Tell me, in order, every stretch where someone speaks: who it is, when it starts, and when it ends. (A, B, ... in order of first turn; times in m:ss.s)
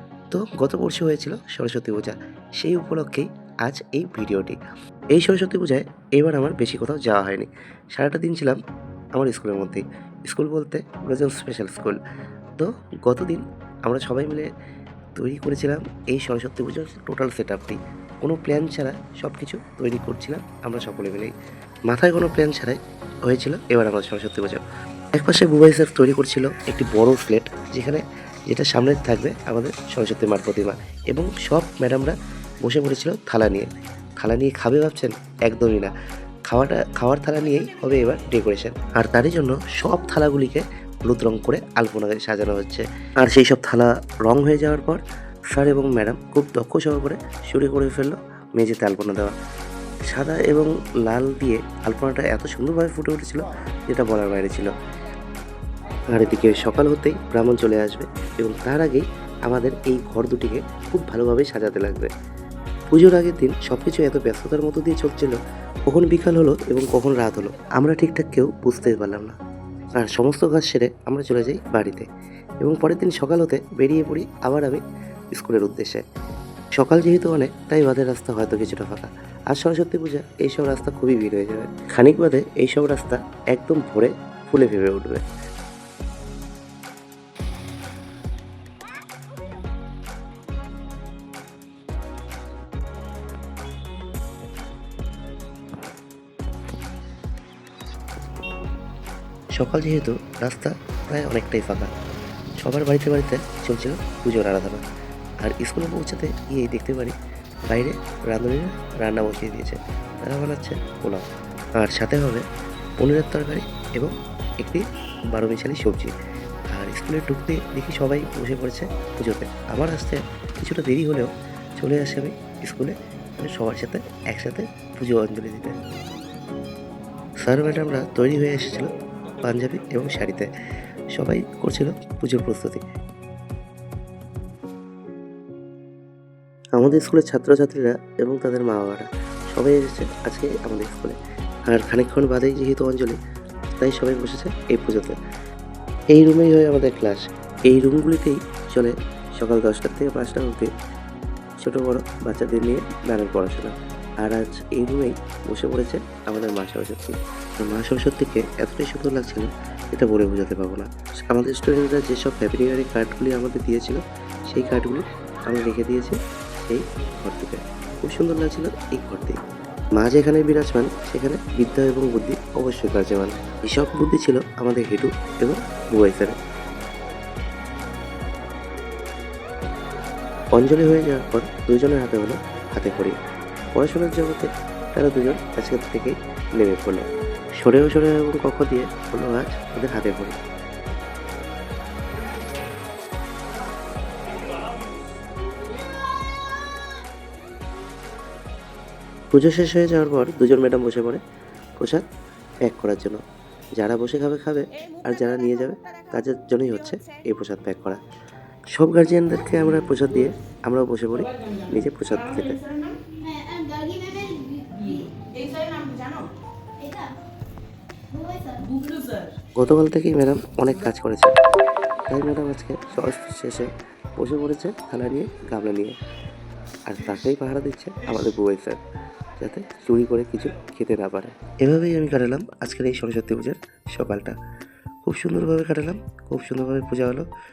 0:00.3-0:04.6 A
0:05.2-0:08.6 A
0:09.2-0:12.0 A
0:12.6-0:14.5 A
0:15.2-0:21.3 A
0:21.9-0:24.6 A
0:25.2-0:33.7 A
0:34.2-0:35.9 A
0:36.5-0:45.0 A
0:45.5-0:49.4 A
0:50.1-0:54.7 A
0:56.1-1:02.1 A
1:02.9-1:05.4 A
1:05.9-1:09.4 A
1:10.0-1:12.1 A
1:12.6-1:14.8 A
1:15.3-1:16.0 A
1:16.8-1:25.2 A
1:39.6-1:41.9 A
1:42.6-1:44.8 A
1:45.4-1:47.2 A
1:47.7-1:51.2 A
1:51.8-1:52.4 A
1:53.0-1:56.1 A
1:56.7-2:05.8 A
2:07.4-2:08.9 A
2:09.4-2:10.5 A
2:11.2-2:12.8 A
2:16.8-2:21.2 A
2:21.7-2:23.2 A
2:23.8-2:25.2 A
2:26.1-2:30.7 A
2:31.6-2:49.4 A
2:50.0-2:56.4 A
3:00.6-3:03.2 A
3:03.8-3:07.1 A
3:07.6-3:10.4 A
3:19.3-3:21.2 A
3:21.8-3:22.0 A
3:22.6-3:23.2 A
3:23.8-3:28.0 A
3:28.8-3:32.6 A
3:39.6-3:41.4 A
3:42.1-3:46.0 A
3:46.9-3:48.8 A
3:49.4-3:54.4 A
3:55.0-3:57.3 A